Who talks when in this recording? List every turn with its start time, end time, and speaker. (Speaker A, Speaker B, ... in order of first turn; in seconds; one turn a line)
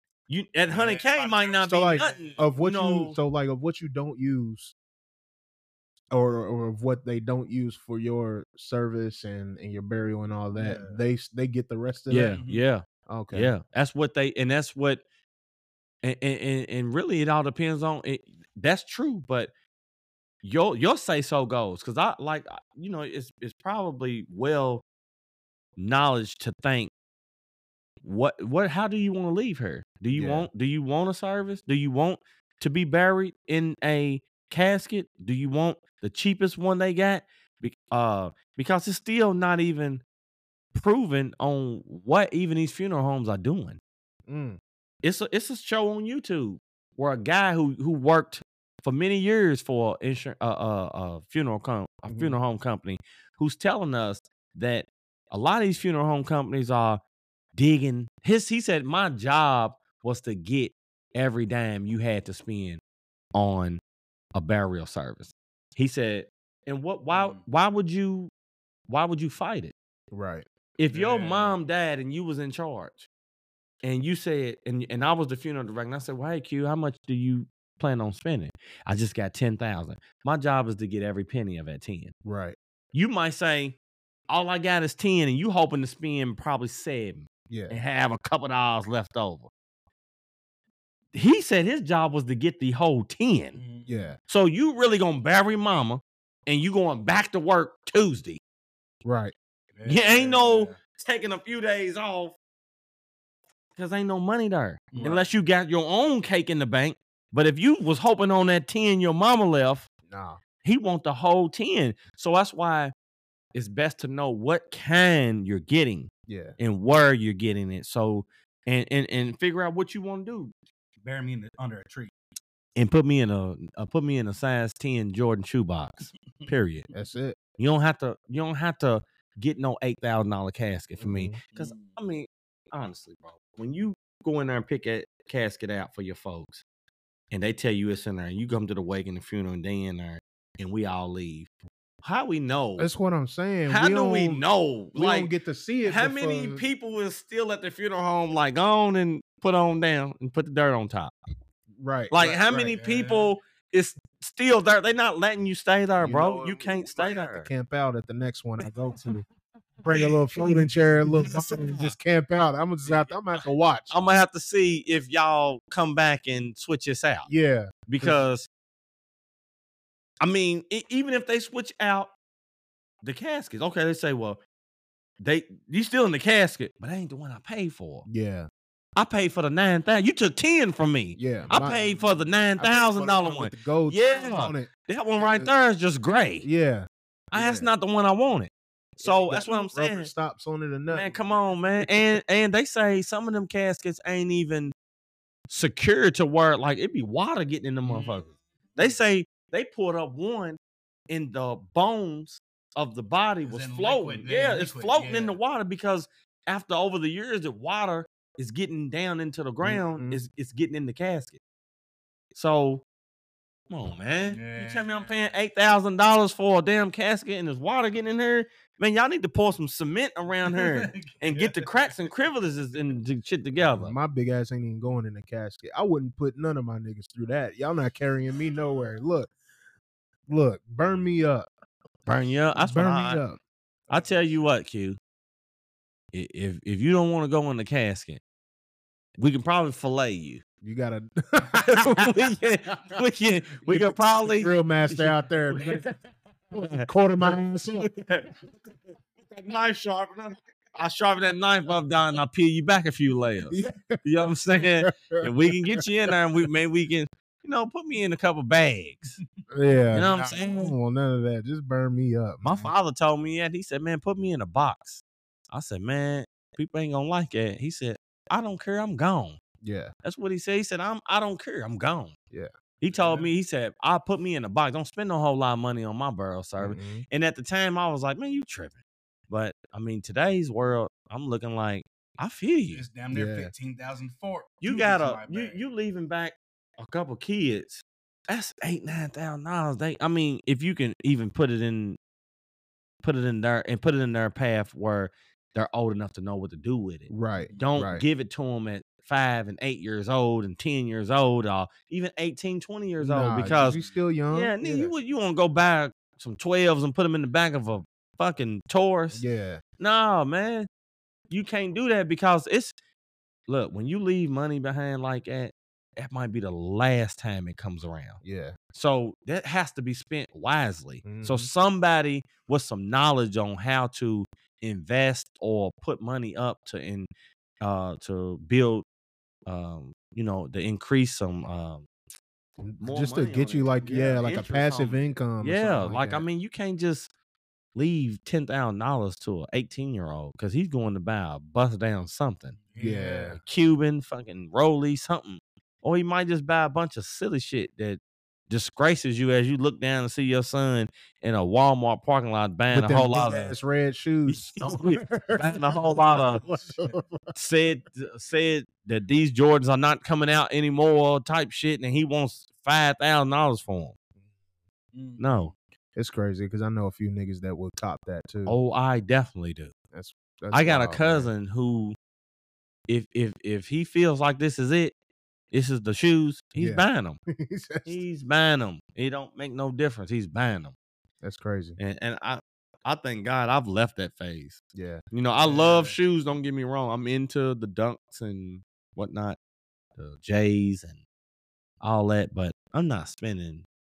Speaker A: 0.3-3.2
Speaker B: 0.7-2.4
Speaker C: 1.6-4.7
Speaker C: 6.1-12.4
Speaker B: 10.5-11.0
Speaker A: 12.1-15.0
Speaker B: 12.2-12.7
Speaker C: 13.1-13.5
Speaker A: 16.0-19.5
Speaker A: 20.4-24.8
Speaker A: 25.8-26.9
Speaker A: 28.0-40.0
Speaker C: 30.1-30.5
Speaker A: 40.7-43.8
Speaker C: 44.3-44.6
Speaker A: 45.0-57.0
Speaker C: 52.1-52.4
Speaker A: 57.5-62.8
Speaker A: 63.3-63.8
Speaker A: 64.3-68.3
Speaker B: 67.1-67.4
Speaker A: 68.9-69.7
Speaker C: 70.1-70.5
Speaker A: 70.8-73.1
Speaker B: 70.9-71.6
Speaker A: 73.8-82.1
Speaker C: 82.2-82.6
Speaker A: 82.9-83.8
Speaker A: 84.3-89.5
Speaker C: 87.5-87.8
Speaker A: 91.1-93.6
Speaker B: 93.5-94.0
Speaker C: 93.9-94.2
Speaker A: 94.3-98.4
Speaker C: 99.0-99.3
Speaker B: 99.8-100.8
Speaker A: 99.9-102.4
Speaker A: 103.8-109.9
Speaker B: 104.9-105.2
Speaker C: 105.0-105.2
Speaker C: 110.1-110.4
Speaker A: 110.6-112.9
Speaker A: 113.5-120.5
Speaker C: 116.3-116.6
Speaker B: 121.0-122.1
Speaker A: 122.8-126.9
Speaker C: 126.9-127.4
Speaker A: 127.6-136.6
Speaker C: 131.0-131.4
Speaker B: 131.5-131.9
Speaker A: 137.3-141.5
Speaker A: 142.0-142.9
Speaker C: 142.8-146.6
Speaker A: 143.7-151.1
Speaker C: 151.8-152.7
Speaker A: 152.1-157.5
Speaker B: 152.7-153.3
Speaker C: 156.0-159.2
Speaker C: 159.8-164.0
Speaker A: 161.2-161.9
Speaker A: 163.9-167.3
Speaker C: 167.3-168.2
Speaker A: 167.9-168.5
Speaker A: 170.2-172.1
Speaker A: 173.0-174.4
Speaker A: 175.2-178.1
Speaker C: 178.1-178.5
Speaker A: 179.0-186.5
Speaker C: 181.2-181.8
Speaker C: 182.6-184.7
Speaker C: 185.2-185.5
Speaker C: 186.4-187.7
Speaker A: 187.3-190.1
Speaker C: 189.0-191.1
Speaker A: 190.9-194.7
Speaker A: 195.5-211.4
Speaker B: 197.8-198.8
Speaker B: 203.4-205.4
Speaker C: 209.6-210.2
Speaker A: 212.3-212.8
Speaker A: 213.7-223.9
Speaker B: 214.3-215.1
Speaker B: 220.5-222.0
Speaker C: 223.7-229.3
Speaker C: 230.3-231.5
Speaker A: 232.1-233.2
Speaker C: 232.6-233.4
Speaker A: 233.9-235.0
Speaker A: 236.1-238.2
Speaker A: 239.2-240.4
Speaker C: 240.6-242.2
Speaker A: 241.7-245.9
Speaker C: 243.7-245.8
Speaker A: 246.5-246.9
Speaker C: 246.7-247.9
Speaker A: 247.8-248.3
Speaker A: 249.2-259.2
Speaker C: 253.5-254.0
Speaker C: 254.6-255.8
Speaker C: 259.5-262.5
Speaker A: 259.9-260.7
Speaker A: 262.4-269.4
Speaker C: 269.6-269.9
Speaker A: 270.0-272.1
Speaker A: 272.8-282.9
Speaker B: 272.9-273.3
Speaker C: 276.6-277.1
Speaker B: 282.7-285.6
Speaker C: 283.1-283.5
Speaker A: 284.6-292.0
Speaker A: 293.0-303.8
Speaker C: 297.1-298.1
Speaker B: 297.4-297.6
Speaker C: 303.0-304.9
Speaker B: 303.5-303.9
Speaker A: 304.3-309.2
Speaker C: 309.1-309.6
Speaker A: 309.8-310.7
Speaker A: 311.3-312.8
Speaker A: 313.5-318.2
Speaker C: 318.2-318.6
Speaker A: 318.7-327.1
Speaker C: 321.0-321.5
Speaker A: 327.6-328.9
Speaker A: 329.5-331.9
Speaker C: 332.6-336.2
Speaker A: 332.8-337.1
Speaker A: 337.8-342.6
Speaker B: 342.7-343.4
Speaker C: 342.8-343.4
Speaker A: 343.4-353.6
Speaker C: 352.7-357.3
Speaker A: 354.3-356.4
Speaker A: 357.3-363.9
Speaker B: 364.9-365.6
Speaker A: 365.2-365.5
Speaker C: 366.0-368.6
Speaker A: 368.5-369.7
Speaker C: 369.9-371.3
Speaker A: 370.5-372.0
Speaker A: 372.9-374.9
Speaker A: 375.5-377.2
Speaker C: 376.6-378.0
Speaker A: 377.9-380.7
Speaker C: 381.2-381.8
Speaker A: 381.8-384.6
Speaker C: 384.7-385.0
Speaker A: 385.1-389.4
Speaker B: 385.4-386.0
Speaker A: 390.0-391.0
Speaker A: 391.8-393.6